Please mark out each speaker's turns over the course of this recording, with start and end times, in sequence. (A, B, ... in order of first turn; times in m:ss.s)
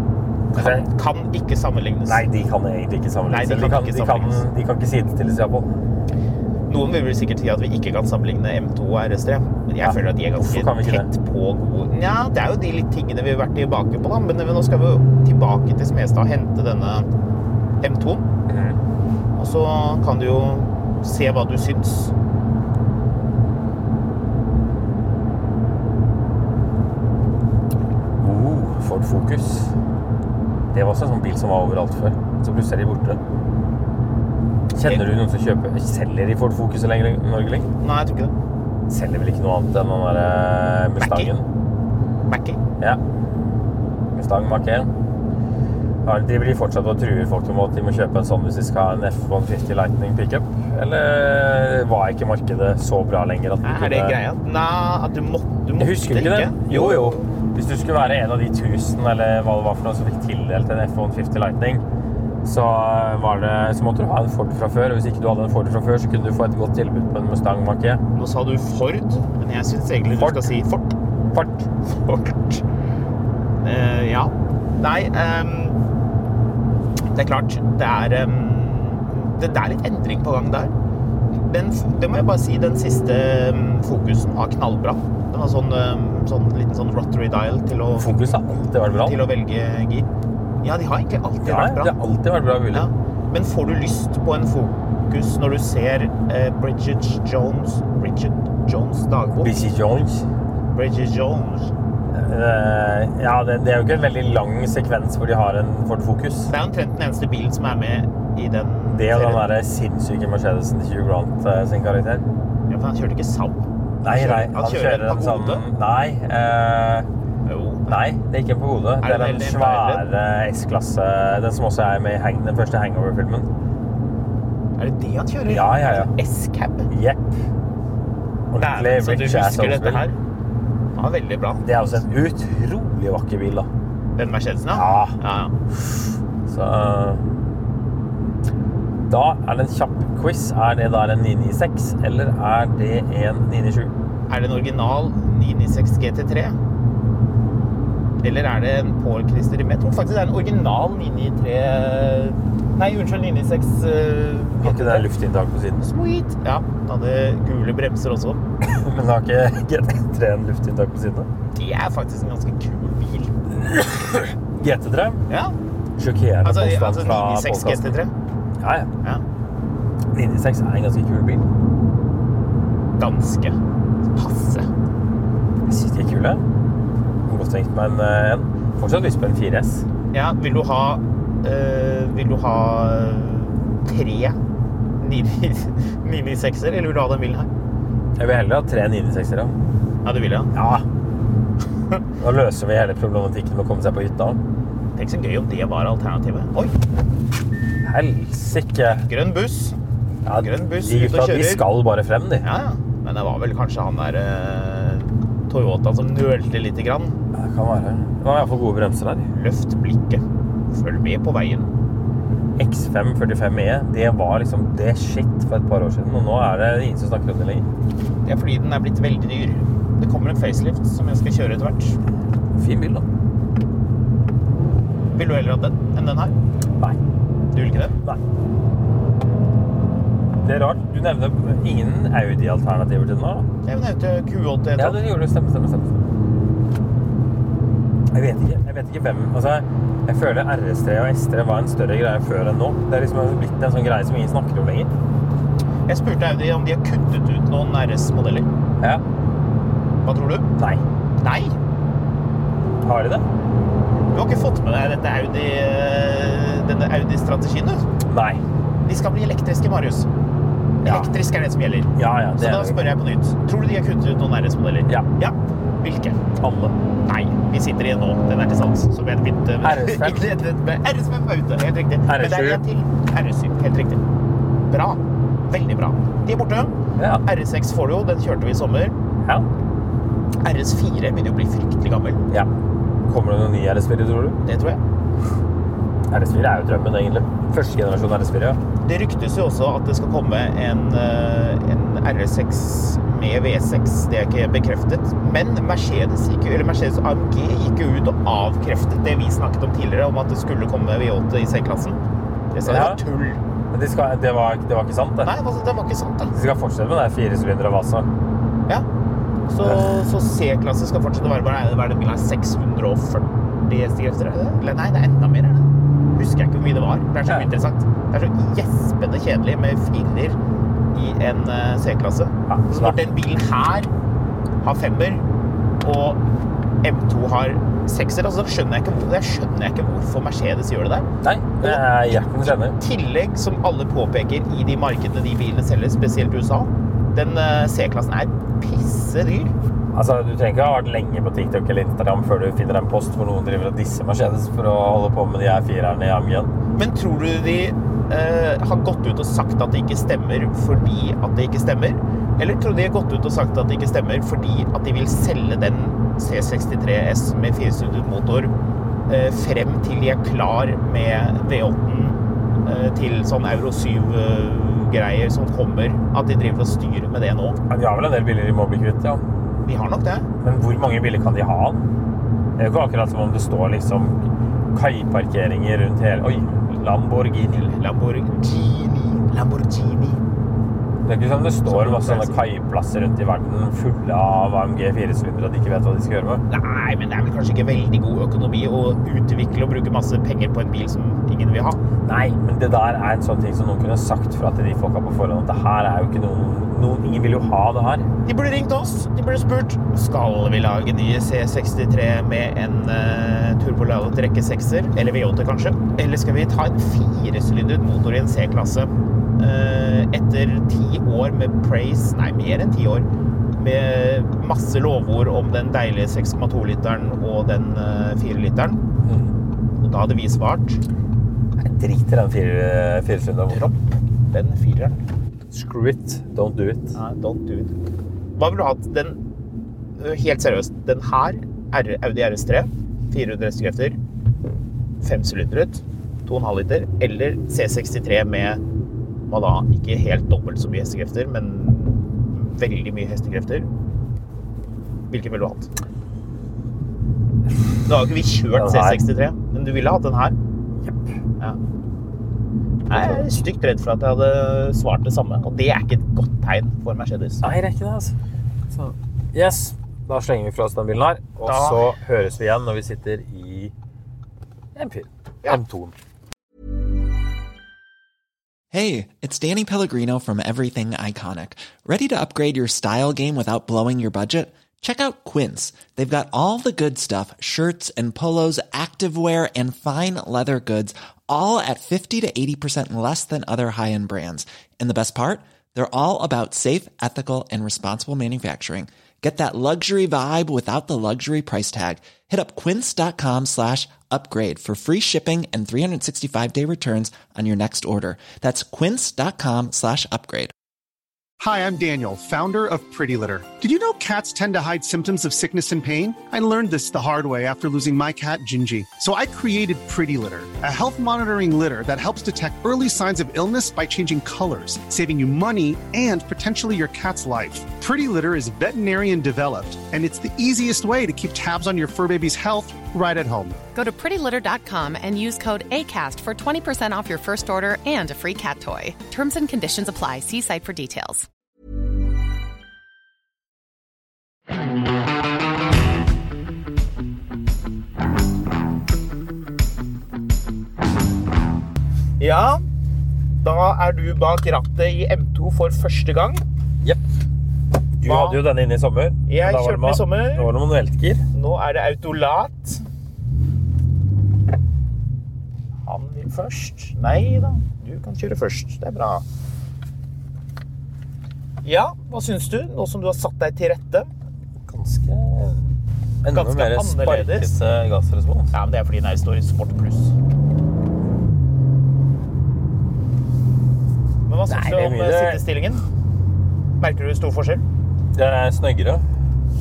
0:00.5-0:00.9 A
0:00.5-0:02.2 B
0:02.1-0:05.7 A
0:03.3-0:04.4 B
0:06.7-0:17.1 B
0:09.8-0:11.1 A
0:17.8-0:18.3 B
0:18.5-0:18.8 A
0:19.4-0:22.1 B
0:28.2-0:29.7 A
0:30.7-0:33.2 A
0:34.7-0:37.7 A
0:37.8-0:38.3 B
0:38.9-0:41.5 A
0:41.0-0:41.3 B
0:42.3-0:42.6 B
0:44.1-0:44.9 A
0:46.0-0:54.2 A
0:53.6-0:57.2 B
0:55.8-1:01.8 A
1:02.4-1:08.0 A
1:08.2-1:10.9 B
1:10.2-1:10.5 A
1:11.3-1:12.0 A
1:12.1-1:12.6 B
1:13.6-1:15.8 B
1:17.1-1:20.7 B
1:21.5-1:30.1 B
1:28.0-1:29.2 A
1:30.6-1:32.0 B
1:31.4-1:32.9 A
1:32.7-1:39.5 B
1:39.4-1:40.3 A
1:40.7-1:41.7 B
1:42.1-1:46.5 A
1:46.5-1:49.4 B
1:48.9-1:52.3 A
1:52.7-1:55.6 B
1:54.0-1:57.1 A
1:57.5-1:58.0 B
1:57.9-2:03.5 A
1:59.0-2:00.0 B
2:04.8-2:06.9 B
2:05.5-2:06.1 A
2:06.9-2:07.3 A
2:08.5-2:10.1 A
2:08.6-2:10.2 B
2:11.0-2:11.7 B
2:11.6-2:13.7 A
2:14.2-2:15.5 B
2:14.7-2:15.2 A
2:15.9-2:17.2 A
2:19.1-2:23.9 A
2:24.3-2:26.6 B
2:28.2-2:35.1 B
2:34.6-2:35.9 A
2:35.8-2:38.4 B
2:38.6-2:41.3 A
2:41.5-2:43.4 B
2:43.6-2:45.2 A
2:45.3-2:45.6 B
2:46.0-2:48.0 A
2:46.4-2:48.1 B
2:48.6-2:48.9 A
2:50.1-2:51.5 A
2:53.0-2:53.6 B
2:54.1-2:54.7 B
2:55.7-2:56.4 A
2:57.3-2:59.9 A
3:00.1-3:04.4 B
3:05.0-3:07.5 B
3:08.2-3:09.6 A
3:10.0-3:10.5 B
3:10.5-3:10.8 A
3:12.2-3:14.4 A
3:15.0-3:16.8 B
3:17.8-3:19.1 A
3:18.8-3:19.8 B
3:20.2-3:22.5 A
3:20.3-3:21.6 B
3:22.4-3:27.2 B
3:27.3-3:29.3 A
3:29.3-3:31.7 B
3:32.6-3:37.7 A
3:38.3-3:42.0 B
3:42.6-3:43.1 A
3:45.1-3:46.4 B
3:47.5-3:48.0 B
3:50.4-3:53.5 A
3:53.6-3:55.0 B
3:54.8-3:55.9 A
3:58.1-4:04.9 A
4:05.9-4:08.5 B
4:10.0-4:10.5 B
4:10.6-4:10.8 A
4:11.2-4:11.6 B
4:12.8-4:13.3 A
4:14.1-4:17.8 B
4:18.1-4:18.4 A
4:18.8-4:20.1 B
4:20.8-4:26.3 B
4:20.8-4:21.1 A
4:22.0-4:22.8 A
4:26.4-4:26.8 A
4:27.1-4:34.0 B
4:29.6-4:30.3 A
4:32.1-4:32.6 A
4:34.7-4:39.0 B
4:37.0-4:37.2 A
4:40.4-4:42.2 B
4:43.1-4:44.4 A
4:44.4-4:44.8 B
4:46.1-4:48.6 A
4:48.8-5:02.0 B
5:02.5-5:03.4 B
5:02.6-5:03.0 A
5:03.7-5:05.4 A
5:05.2-5:06.3 B
5:06.3-5:08.1 A
5:09.5-5:20.4 B
5:09.6-5:10.0 A
5:20.9-5:23.9 B
5:22.5-5:23.0 A
5:24.6-5:25.2 B
5:25.8-5:26.2 B
5:26.8-5:31.1 B
5:31.2-5:32.8 A
5:31.6-5:39.5 B
5:39.9-5:46.5 A
5:46.8-5:58.5 B
5:59.1-6:07.6 B
6:07.7-6:09.2 A
6:09.6-6:10.3 B
6:10.4-6:11.8 A
6:12.6-6:17.7 A
6:17.6-6:20.2 B
6:21.1-6:26.4 A
6:21.7-6:22.4 B
6:26.5-6:31.8 B
6:32.0-6:38.1 A
6:38.2-6:58.9 B
6:59.0-6:59.3 A
6:59.8-7:00.8 B
7:01.6-7:03.7 A
7:03.5-7:03.8 B
7:04.3-7:05.0 B
7:05.5-7:07.0 A
7:07.0-7:07.7 B
7:08.4-7:09.2 B
7:10.0-7:14.0 B
7:15.0-7:18.6 B
7:19.3-7:23.7 B
7:25.1-7:25.7 B
7:27.9-7:30.4 B
7:28.5-7:29.0 A
7:30.8-7:31.2 A
7:32.9-7:37.4 B
7:32.9-7:33.2 A
7:37.4-7:38.2 A
7:38.7-7:43.7 A
7:41.4-7:41.9 B
7:44.8-7:46.0 A
7:48.7-8:20.5 C
8:21.4-8:43.6 D
8:43.8-8:51.3 E
9:02.2-9:02.6 B
9:03.4-9:06.4 B
9:08.0-9:11.2 A
9:08.0-9:08.4 B
9:09.3-9:10.5 B
9:11.3-9:12.8 B
9:15.8-9:19.2 B
9:21.6-9:24.1 B
9:24.6-9:25.7 A
9:26.2-9:28.5 A
9:26.3-9:27.5 B
9:28.5-9:30.1 B
9:34.3-9:35.8 B
9:34.5-9:35.4 A
9:36.8-9:37.6 B
9:38.1-9:39.0 A